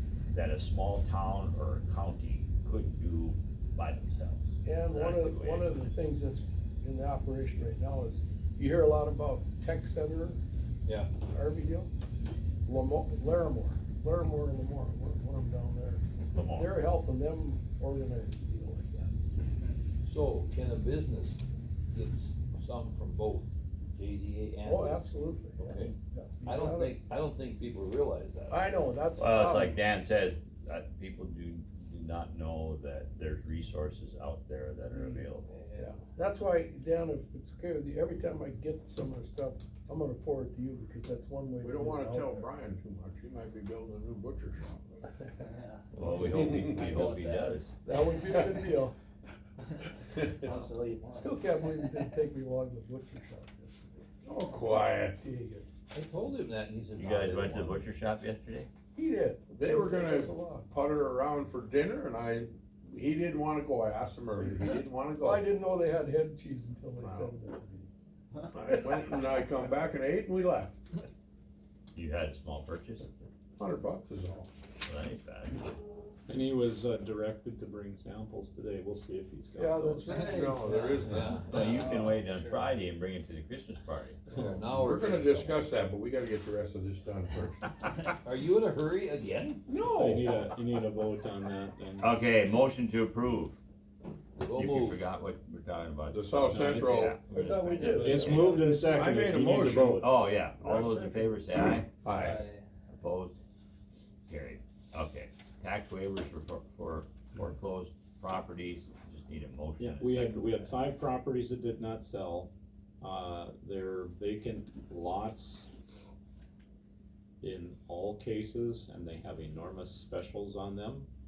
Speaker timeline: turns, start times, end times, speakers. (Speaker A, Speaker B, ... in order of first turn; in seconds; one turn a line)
Speaker A: 0.3-5.7
Speaker B: 4.6-10.4
Speaker C: 10.8-11.1
Speaker B: 11.3-11.9
Speaker B: 12.7-19.1
Speaker A: 16.3-16.8
Speaker C: 20.0-28.7
Speaker B: 24.6-27.0
Speaker B: 28.5-29.8
Speaker A: 29.2-35.5
Speaker B: 35.0-42.5
Speaker C: 35.6-35.9
Speaker D: 41.6-45.1
Speaker A: 45.9-47.7
Speaker C: 46.0-47.6
Speaker D: 46.2-47.1
Speaker B: 47.8-49.0
Speaker D: 48.3-48.8
Speaker D: 50.1-50.5
Speaker E: 50.4-51.4
Speaker B: 51.1-54.0
Speaker D: 54.2-55.2
Speaker B: 55.2-55.7
Speaker C: 55.9-57.9
Speaker A: 57.0-58.7
Speaker B: 59.0-60.7
Speaker D: 59.5-65.5
Speaker B: 65.2-67.9
Speaker D: 67.0-67.4
Speaker D: 68.5-70.8
Speaker B: 68.6-69.3
Speaker A: 71.9-73.1
Speaker D: 73.6-74.5
Speaker A: 74.8-75.7
Speaker F: 76.3-80.5
Speaker B: 79.6-80.5
Speaker D: 80.0-81.5
Speaker E: 80.2-80.9
Speaker C: 80.4-82.0
Speaker A: 81.5-84.3
Speaker E: 81.5-82.5
Speaker C: 84.3-85.6
Speaker D: 84.3-87.7
Speaker C: 88.2-89.6
Speaker D: 89.7-90.4
Speaker F: 89.9-92.2
Speaker A: 92.0-93.6
Speaker C: 94.4-95.0
Speaker A: 94.5-98.7
Speaker D: 96.1-97.2
Speaker F: 96.5-97.1
Speaker B: 97.2-98.8
Speaker C: 97.7-98.6
Speaker F: 97.9-100.1
Speaker D: 98.8-100.1
Speaker A: 100.0-102.2
Speaker D: 102.0-102.5
Speaker C: 102.2-102.6
Speaker A: 102.9-103.4
Speaker A: 104.2-110.7
Speaker F: 109.8-115.7
Speaker F: 117.4-121.1